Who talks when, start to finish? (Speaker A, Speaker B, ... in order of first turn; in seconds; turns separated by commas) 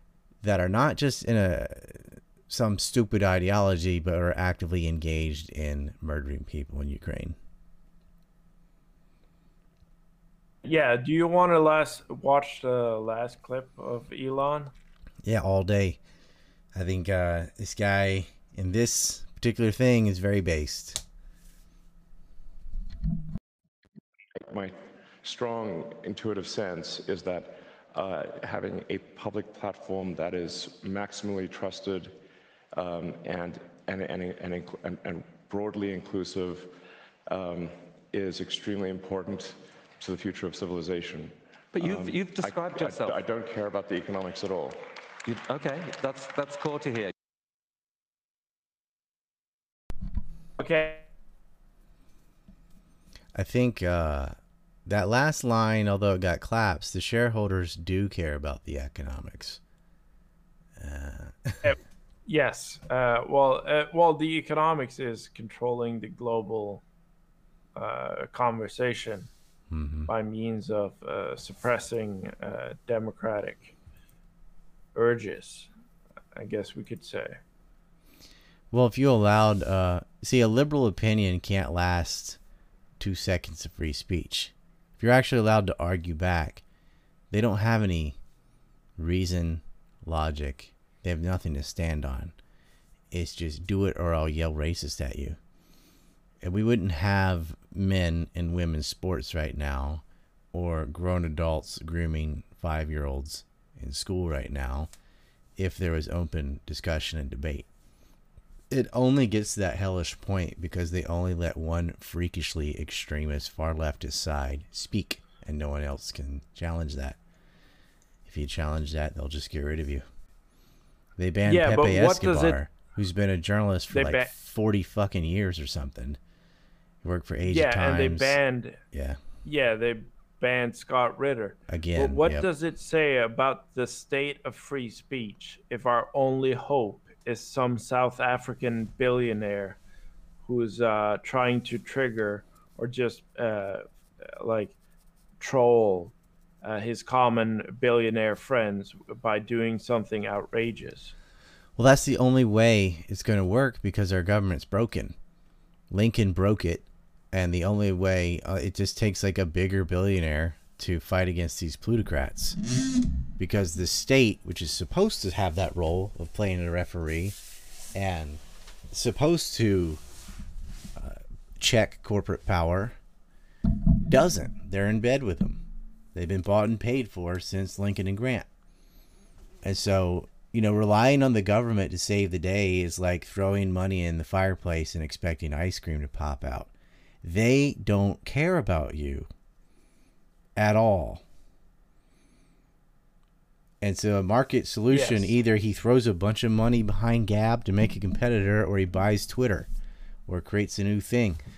Speaker A: 0.4-7.3, Speaker B: 10.6-14.7, Speaker A: 15.2-16.0, Speaker A: 16.7-21.0, Speaker C: 24.4-32.1, Speaker C: 32.7-36.7, Speaker C: 37.3-44.8, Speaker D: 41.7-43.2, Speaker D: 45.2-47.1, Speaker B: 50.6-51.1, Speaker A: 53.3-54.3, Speaker A: 54.9-59.6, Speaker A: 60.8-61.7, Speaker B: 61.6-66.8, Speaker B: 67.8-69.3, Speaker A: 69.7-70.1, Speaker B: 70.1-73.7, Speaker B: 74.9-75.7, Speaker B: 76.3-77.4, Speaker A: 78.7-82.4, Speaker A: 83.0-86.6, Speaker A: 87.3-88.2, Speaker A: 89.0-92.3, Speaker A: 93.1-95.4, Speaker A: 96.4-104.9, Speaker A: 105.6-107.7, Speaker A: 108.7-117.2, Speaker A: 118.2-120.0, Speaker A: 121.2-126.2, Speaker B: 121.4-122.6, Speaker B: 123.9-124.3, Speaker A: 127.0-128.4, Speaker B: 127.4-128.8, Speaker A: 128.9-129.2, Speaker B: 129.4-139.8, Speaker A: 131.7-132.5, Speaker B: 140.4-144.7, Speaker B: 145.4-151.1, Speaker A: 151.8-155.2, Speaker A: 155.9-162.6, Speaker A: 163.4-167.3, Speaker A: 167.9-170.0, Speaker A: 170.9-173.0, Speaker A: 173.9-175.6, Speaker A: 176.1-178.5, Speaker A: 179.6-186.7, Speaker A: 187.2-189.3, Speaker A: 190.6-191.2, Speaker A: 193.8-199.7, Speaker B: 194.9-195.3, Speaker A: 200.3-201.4